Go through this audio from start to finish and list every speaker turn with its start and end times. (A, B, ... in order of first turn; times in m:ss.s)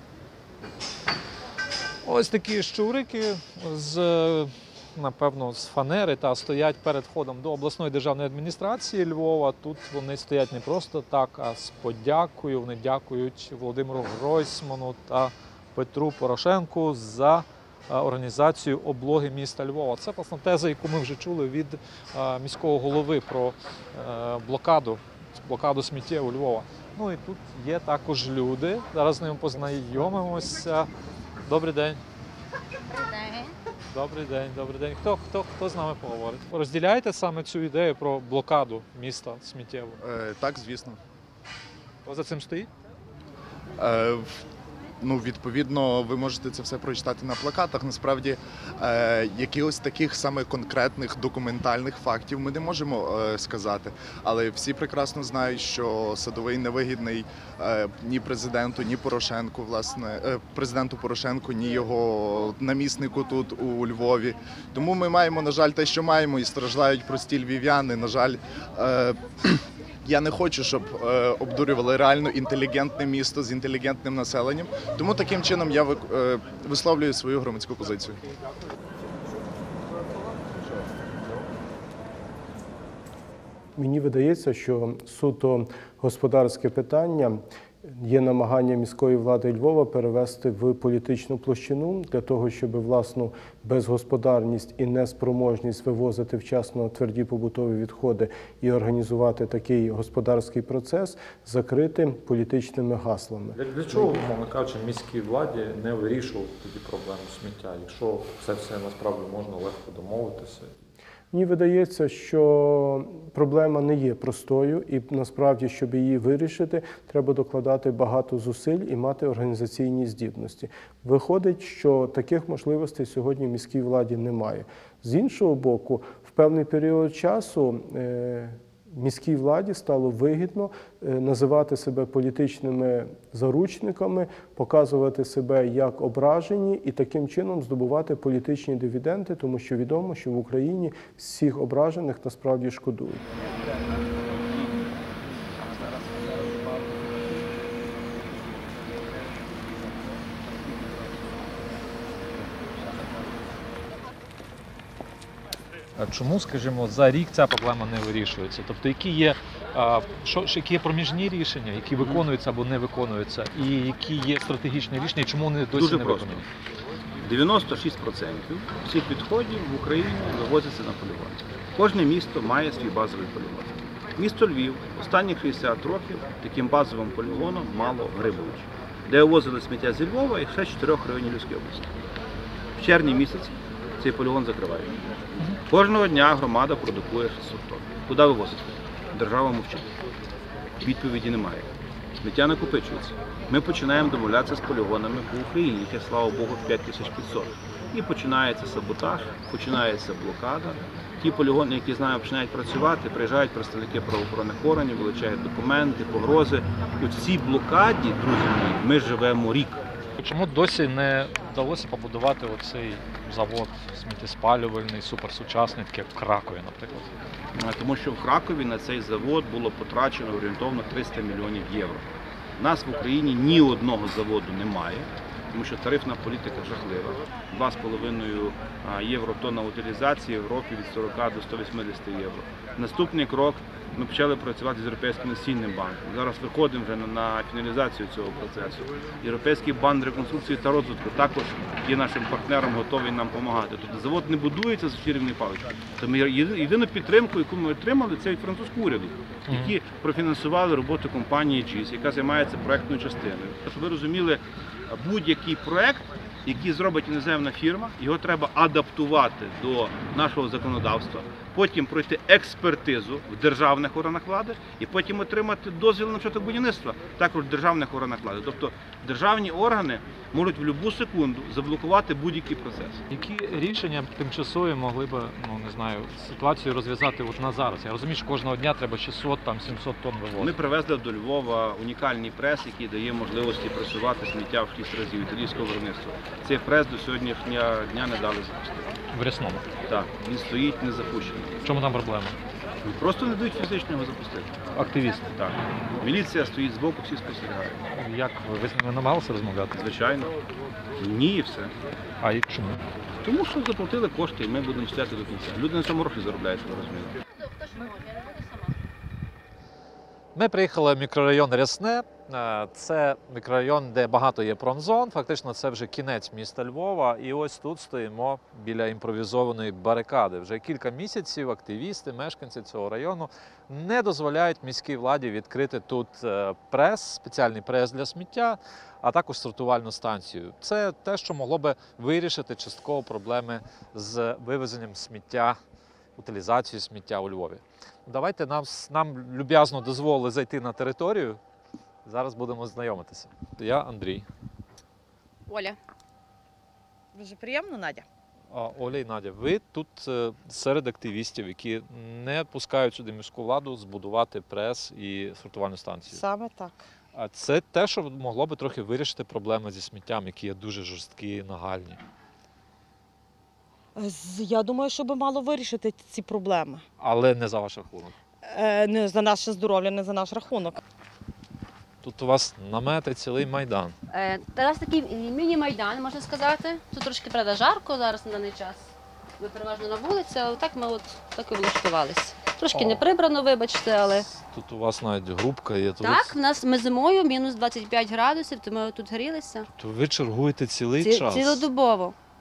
0:02.0-0:30.9 A
0:31.4-0:32.0 A
0:33.9-0:40.0 A
0:40.0-0:41.0 B
0:42.0-0:42.7 A
0:43.8-0:44.4 B
0:45.0-1:18.2 B
1:23.8-1:44.2 C
1:43.5-1:50.7 A
1:51.3-2:23.2 C
2:24.4-2:24.8 D
2:25.6-2:27.4 D
2:30.4-2:31.2 D
2:32.4-2:33.4 D
2:36.0-2:46.4 A
2:42.0-2:42.2 D
2:45.7-2:46.4 D
2:47.2-3:01.9 D
3:02.8-3:05.0 D
3:05.6-3:09.9 D
3:10.8-3:11.7 D
3:12.2-3:29.8 D
3:30.2-3:37.1 A
3:37.5-4:33.0 D
4:09.5-4:09.7 A
4:33.1-4:40.5 A
4:40.4-4:48.9 D
4:49.1-4:49.7 A
4:49.8-4:51.6 D
4:51.6-4:52.4 A
4:52.8-4:57.8 D
4:54.7-4:55.2 A
4:57.9-4:59.8 A
4:59.7-5:00.3 D
5:01.0-5:01.7 D
5:02.2-5:02.8 A
5:03.2-5:07.2 D
5:07.3-5:08.7 E
5:10.3-5:35.6 A
5:36.2-5:41.4 A
5:42.0-5:44.3 A
5:45.5-5:45.8 E
5:47.1-5:48.0 F
5:48.5-5:56.2 A
5:56.1-5:56.8 F
5:57.1-6:02.0 A
6:04.0-6:06.8 F
6:07.0-6:08.1 A
6:08.4-6:10.8 F
6:12.0-6:13.9 A
6:14.1-6:24.2 E
6:22.7-6:23.0 A
6:24.3-6:26.4 A
6:26.0-6:29.7 E
6:29.7-6:31.7 A
6:31.0-6:32.1 E